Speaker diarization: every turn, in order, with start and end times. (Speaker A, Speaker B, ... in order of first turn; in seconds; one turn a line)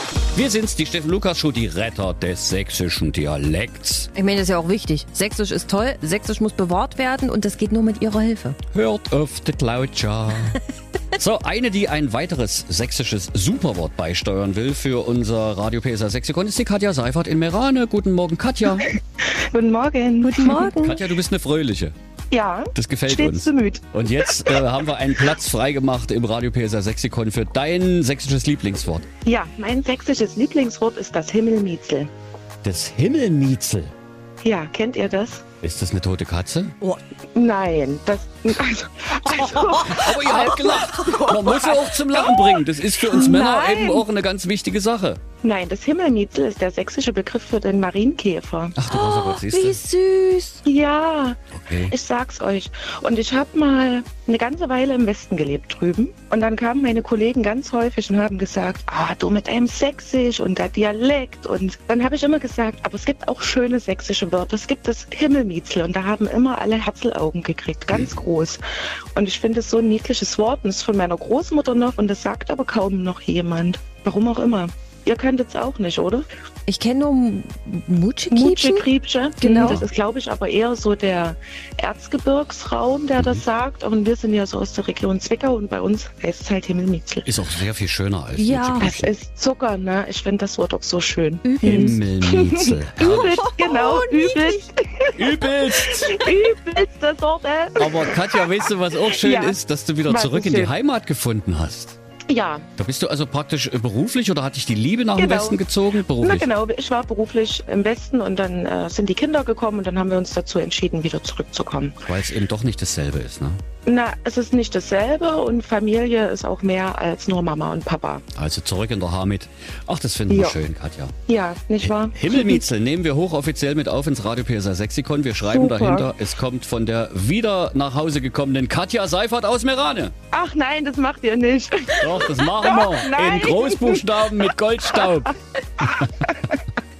Speaker A: 0.3-4.1
Speaker B: 4.1-8.6
Speaker A: 8.7-10.6
Speaker A: 11.1-18.9
Speaker C: 19.2-20.7
Speaker B: 20.2-21.0
Speaker A: 20.8-21.9
Speaker C: 22.3-24.3
Speaker A: 22.7-29.1
Speaker C: 29.2-32.1
Speaker A: 32.6-33.9
Speaker C: 34.4-35.4
Speaker A: 35.6-36.7
Speaker C: 37.3-44.0
Speaker A: 39.7-45.2
Speaker C: 45.4-48.8
Speaker A: 48.8-49.8
Speaker B: 48.8-50.6
Speaker C: 50.6-68.6
Speaker A: 51.5-51.9
Speaker C: 69.1-76.3
Speaker B: 76.7-78.9
Speaker C: 78.3-87.3
Speaker B: 79.4-79.8
Speaker A: 87.2-89.1
Speaker B: 88.3-88.9
Speaker C: 88.8-98.4
Speaker B: 91.4-92.0
Speaker A: 91.6-93.4
Speaker B: 93.0-94.6
Speaker A: 95.2-96.3
Speaker A: 97.8-102.0
Speaker C: 99.1-100.7
Speaker C: 102.3-102.7
Speaker A: 102.8-106.5
Speaker C: 105.2-105.6
Speaker C: 106.2-112.0
Speaker A: 112.0-113.6
Speaker C: 113.8-118.2
Speaker A: 118.3-121.1
Speaker C: 120.3-120.6
Speaker C: 121.3-122.6
Speaker A: 121.8-130.1
Speaker C: 125.4-126.1
Speaker C: 130.3-134.1
Speaker A: 132.0-135.9
Speaker C: 135.8-136.5